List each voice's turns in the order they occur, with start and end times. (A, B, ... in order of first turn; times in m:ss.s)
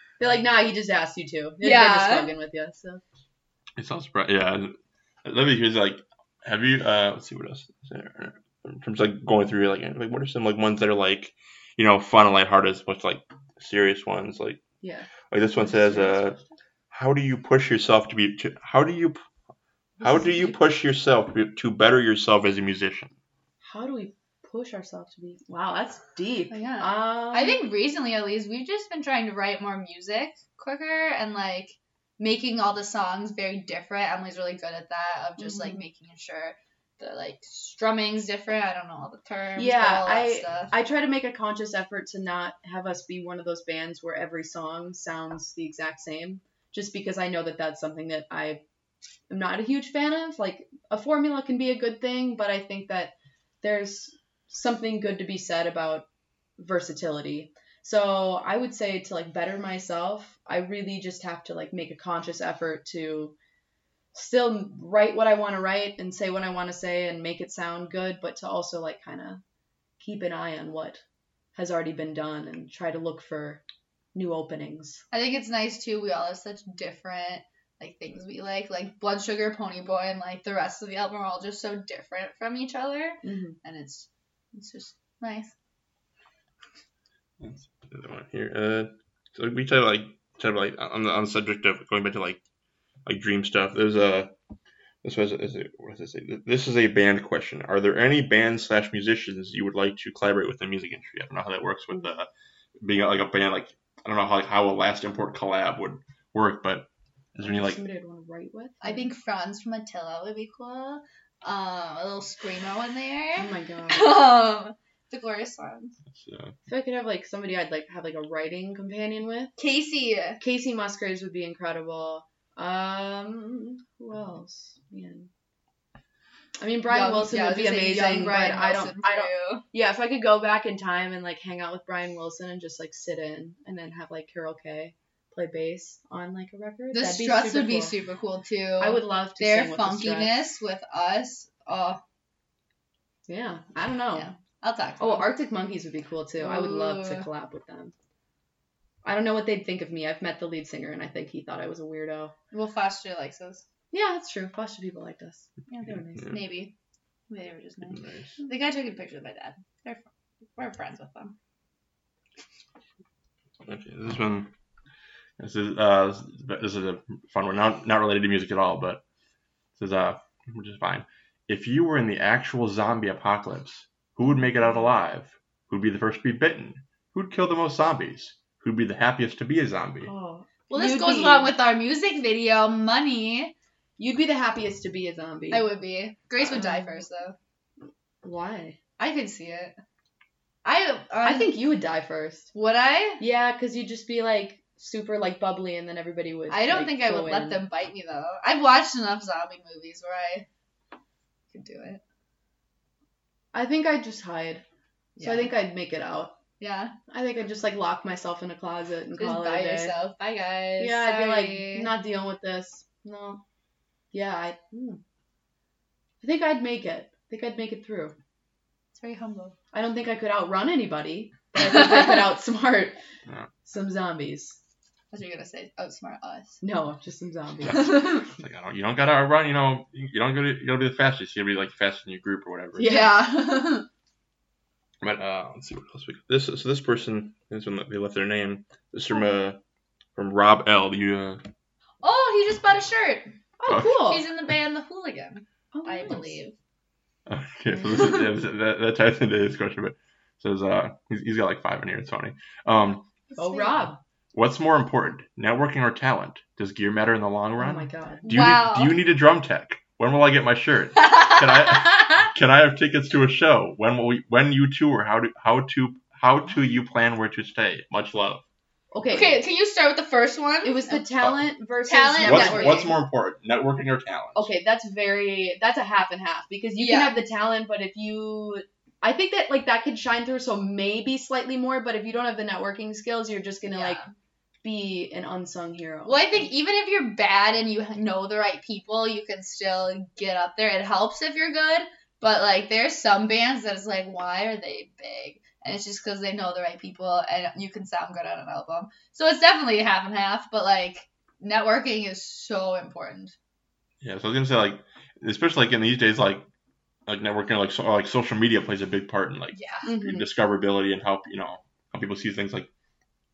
0:00.2-0:03.0 A
0:01.6-0:02.3 B
0:03.8-0:14.6 C
0:14.8-0:16.4 A
0:15.3-0:16.4 C
0:16.9-0:19.2 C
0:20.0-0:20.6 A
0:20.0-0:23.1 C
0:23.6-0:27.6 A
0:26.5-0:40.7 B
0:35.4-0:35.8 A
0:39.6-0:48.6 A
0:49.3-0:56.1 A
0:56.6-1:03.3 A
1:04.1-1:09.4 A
1:10.0-1:11.0 A
1:11.5-1:13.6 A
1:14.1-1:15.0 A
1:15.1-1:25.5 B
1:23.2-1:23.6 A
1:27.4-1:32.4 C
1:33.0-1:34.3 C
1:35.0-1:42.3 C
1:42.8-1:47.8 C
1:47.4-1:49.1 A
1:48.8-1:56.0 B
1:53.4-1:54.1 A
1:56.1-1:56.5 C
1:56.7-1:59.5 A
1:59.6-2:00.4 B
2:00.4-2:05.3 A
2:06.6-2:17.9 A
2:06.9-2:09.6 B
2:16.9-2:22.0 B
2:18.8-2:20.4 A
2:23.3-2:24.3 A
2:24.1-2:25.3 B
2:25.0-2:27.9 A
2:26.4-2:27.3 B
2:29.0-2:32.3 A
2:32.5-2:33.6 B
2:33.9-2:36.3 A
2:35.7-2:36.7 B
2:37.3-2:41.3 B
2:38.0-2:38.3 C
2:43.6-2:44.5 C
2:45.4-2:49.0 C
2:49.8-3:00.1 C
3:00.0-3:01.5 A
3:00.7-3:03.5 B
3:04.0-3:05.7 A
3:05.5-3:07.3 B
3:06.4-3:07.0 A
3:08.2-3:08.8 A
3:09.0-3:09.7 B
3:10.6-3:11.5 B
3:11.2-3:12.5 A
3:12.5-3:13.2 B
3:13.2-3:17.6 A
3:16.5-3:20.4 B
3:21.5-3:22.0 B
3:23.5-3:24.6 A
3:25.2-3:25.5 B
3:25.2-3:26.3 A
3:26.6-3:27.0 B
3:27.1-3:29.9 A
3:29.2-3:31.9 B
3:30.8-3:33.4 A
3:34.1-3:35.0 A
3:36.2-3:38.1 A
3:38.9-3:39.6 B
3:39.7-3:43.0 A
3:43.6-3:44.6 A
3:45.1-3:46.6 B
3:46.6-3:48.1 A
3:47.6-3:53.0 C
3:47.7-3:48.2 B
3:52.8-3:53.8 B
3:52.8-3:53.1 A
3:55.0-3:59.6 C
4:00.1-4:01.4 C
4:02.0-4:06.5 B
4:03.6-4:04.2 A
4:05.7-4:06.4 A
4:07.3-4:13.0 C
4:13.3-4:13.9 B
4:13.4-4:14.0 A
4:14.3-4:28.4 C
4:17.6-4:18.3 A
4:18.2-4:19.0 B
4:21.0-4:22.2 B
4:28.9-4:29.4 A
4:29.1-4:31.0 B
4:30.6-4:32.9 A
4:31.2-4:31.4 C
4:31.8-4:32.9 B
4:32.2-4:34.5 C
4:34.4-4:44.0 A
4:36.8-4:37.2 B
4:43.7-4:44.1 B
4:44.6-4:46.5 A
4:46.0-5:03.3 B
5:04.0-5:06.4 C
5:07.1-5:12.7 C
5:09.5-5:09.9 B
5:09.8-5:10.3 A